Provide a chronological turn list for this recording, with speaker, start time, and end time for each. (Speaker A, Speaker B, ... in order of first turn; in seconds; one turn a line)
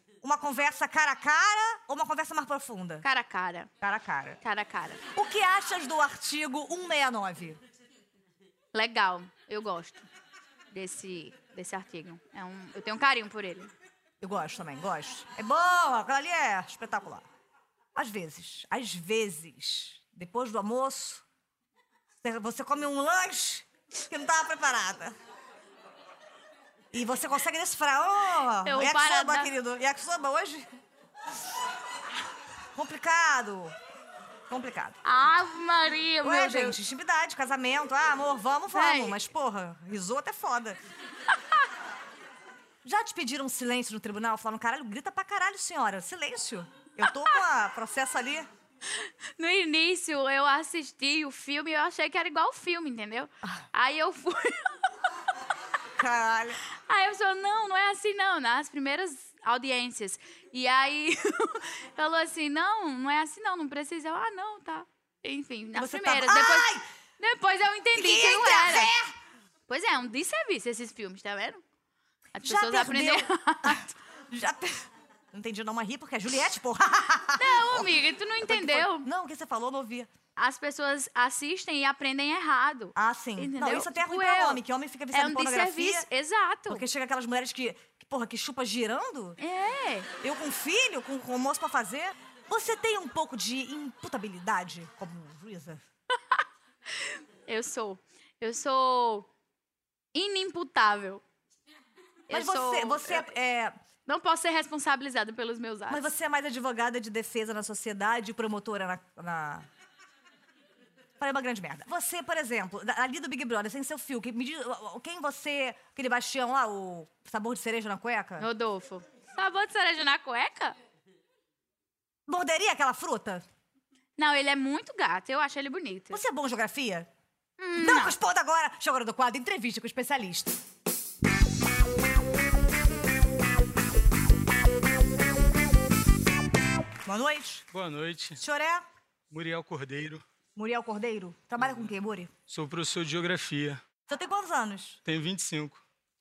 Speaker A: 0.2-3.0
Speaker B: 3.0-3.7
Speaker A: 3.8-4.4
Speaker B: 4.4-5.0
Speaker A: 5.1-7.6
Speaker B: 8.7-10.1
Speaker B: 10.7-13.7
Speaker A: 14.2-17.3
Speaker A: 17.9-21.2
Speaker A: 22.2-25.1
Speaker A: 26.9-30.7
Speaker B: 28.6-29.5
Speaker A: 32.8-33.8
Speaker A: 34.5-35.0
Speaker B: 35.0-36.8
Speaker A: 36.2-40.8
Speaker B: 38.7-39.2
Speaker A: 42.8-48.5
Speaker B: 48.9-54.7
Speaker A: 56.0-56.6
Speaker B: 56.9-68.9
Speaker A: 65.8-66.8
Speaker A: 67.9-69.1
Speaker B: 69.7-71.6
Speaker B: 72.3-73.9
Speaker A: 72.4-77.9
Speaker B: 77.4-79.1
Speaker A: 78.4-80.1
Speaker B: 80.4-86.8
Speaker A: 83.0-86.1
Speaker A: 86.7-89.4
Speaker B: 89.4-90.1
Speaker A: 90.2-95.8
Speaker B: 96.9-99.3
Speaker B: 100.1-101.2
Speaker B: 102.3-103.3
Speaker A: 102.3-103.8
Speaker B: 104.1-106.1
Speaker A: 105.9-109.7
Speaker A: 111.2-118.5
Speaker B: 118.4-120.8
Speaker A: 122.3-123.5
Speaker B: 124.2-126.2
Speaker A: 126.1-127.1
Speaker B: 127.6-128.1
Speaker A: 127.8-130.6
Speaker A: 137.1-137.7
Speaker C: 137.7-138.4
Speaker A: 138.4-138.8
Speaker C: 139.3-140.2
Speaker A: 140.6-142.3
Speaker C: 142.5-143.8
Speaker A: 144.1-145.0
Speaker C: 145.1-145.8